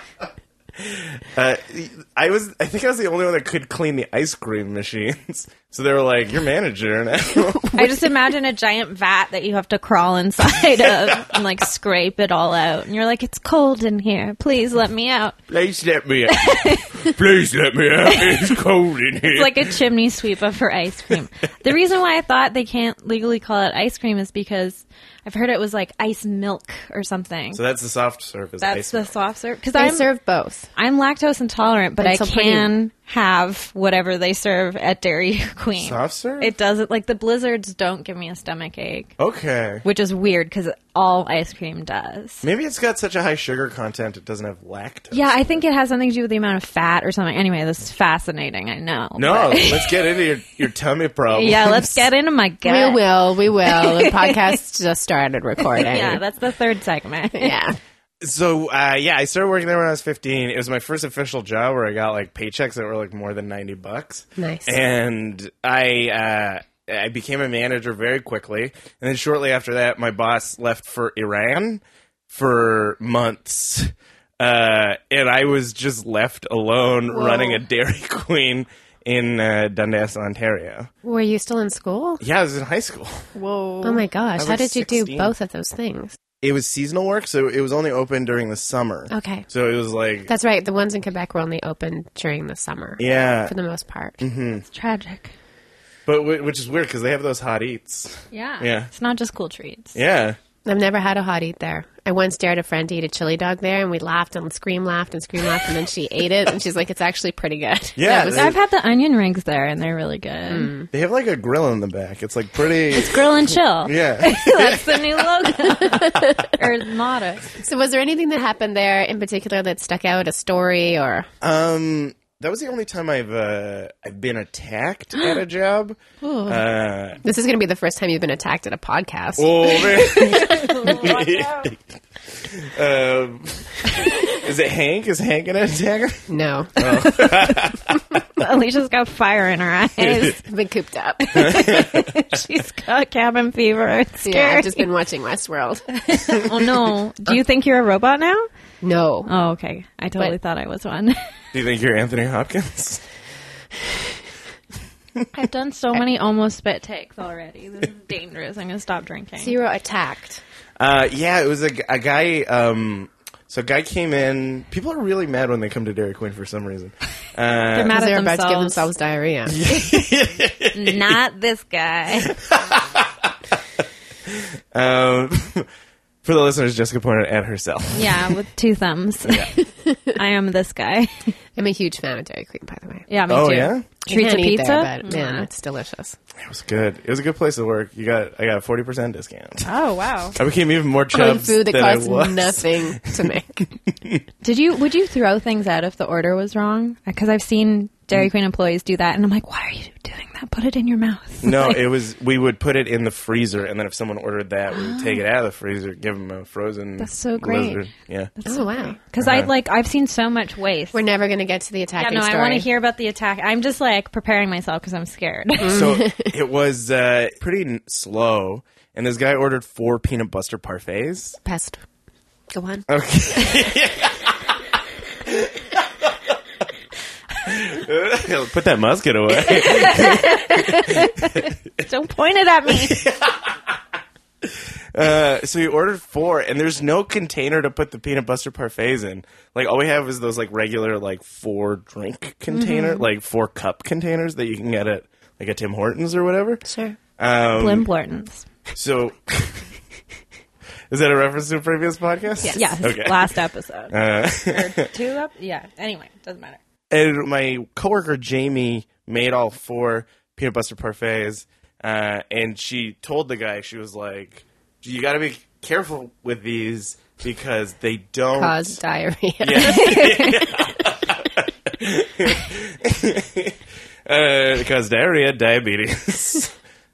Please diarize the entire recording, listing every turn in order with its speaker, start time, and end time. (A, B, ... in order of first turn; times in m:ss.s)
0:00.8-0:07.8 A
0:07.7-0:15.4 B
0:10.8-0:11.4 A
0:15.5-0:19.8 A
0:16.3-0:17.1 B
0:18.1-0:18.6 B
0:19.2-0:27.6 B
0:27.5-0:29.1 A
0:28.6-0:30.1 B
0:29.8-0:30.7 C
0:30.8-0:39.1 B
0:32.0-0:32.7 C
0:35.8-0:36.5 A
0:39.2-0:39.8 A
0:39.8-0:42.4 B
0:42.4-0:45.4 A
0:45.1-0:50.1 B
0:49.2-0:52.1 A
0:51.3-0:54.6 B
0:52.6-0:56.2 C
0:55.7-0:57.6 B
0:57.3-0:57.8 C
0:58.2-1:20.9 A
1:04.4-1:04.8 C
1:17.1-1:17.6 C
1:21.0-1:22.2 C
1:22.2-1:23.3 A
1:23.4-1:24.0 B
1:23.8-1:26.2 C
1:24.4-1:25.3 A
1:26.4-1:30.3 A
1:29.1-1:29.5 C
1:30.3-1:34.2 C
1:33.0-1:33.5 A
1:34.2-1:34.6 A
1:34.7-1:35.3 B
1:36.1-1:38.9 A
1:38.3-1:40.0 B
1:40.0-1:40.4 A
1:40.6-1:48.5 C
1:48.0-1:48.6 A
1:48.2-1:50.7 B
1:50.5-1:50.9 C
1:50.9-1:55.3 A
1:52.9-1:57.5 B
1:55.8-1:56.5 C
1:57.6-2:01.3 C
2:01.4-2:07.2 A
2:06.2-2:06.6 C
2:07.2-2:10.1 C
2:09.4-2:18.0 A
2:09.9-2:11.7 B
2:16.3-2:16.8 C
2:16.9-2:17.3 B
2:18.4-2:20.4 B
2:20.0-2:20.3 A
2:20.4-2:21.7 C
2:21.2-2:24.9 B
2:21.4-2:22.4 A
2:24.2-2:26.5 C
2:26.0-2:28.5 B
2:28.8-2:29.3 C
2:29.3-2:31.2 B
2:31.5-2:33.0 A
2:35.3-2:39.6 B
2:39.4-2:40.4 C
2:40.8-2:48.0 A
2:47.7-2:48.9 B
2:47.9-2:49.6 C
2:49.5-2:51.2 A
2:49.7-2:50.0 B
2:50.8-2:52.4 B
2:52.2-2:53.6 A
2:54.2-2:55.7 A
2:56.2-2:58.4 A
2:58.0-3:01.3 B
3:01.6-3:03.1 C
3:03.1-3:05.5 B
3:03.3-3:03.9 A
3:04.1-3:06.2 C
3:06.4-3:09.7 A
3:09.6-3:10.4 B
3:10.4-3:14.2 A
3:11.1-3:13.7 C
3:14.4-3:21.9 B
3:21.4-3:28.3 A
3:24.7-3:25.2 B
3:27.0-3:27.8 B
3:28.4-3:31.0 B
3:28.4-3:29.0 C
3:29.2-3:29.5 A
3:30.9-3:32.7 C
3:32.0-3:35.9 B
3:35.6-3:36.3 C
3:35.7-3:41.4 A
3:41.4-3:41.8 C
3:42.5-3:42.9 C
3:42.9-3:44.6 A
3:45.2-3:46.3 A
3:47.4-3:51.5 A
3:49.5-3:53.0 B
3:52.7-3:53.8 A
3:54.4-4:06.6 A
4:02.5-4:03.1 B
4:06.7-4:07.0 C
4:07.2-4:07.9 A
4:07.6-4:08.5 B
4:08.7-4:09.7 A
4:10.9-4:13.4 A
4:12.4-4:12.8 C
4:12.6-4:14.0 B
4:13.9-4:14.9 A
4:14.5-4:16.6 B
4:16.9-4:28.8 A
4:28.4-4:30.5 C
4:29.4-4:36.5 A
4:29.6-4:30.4 B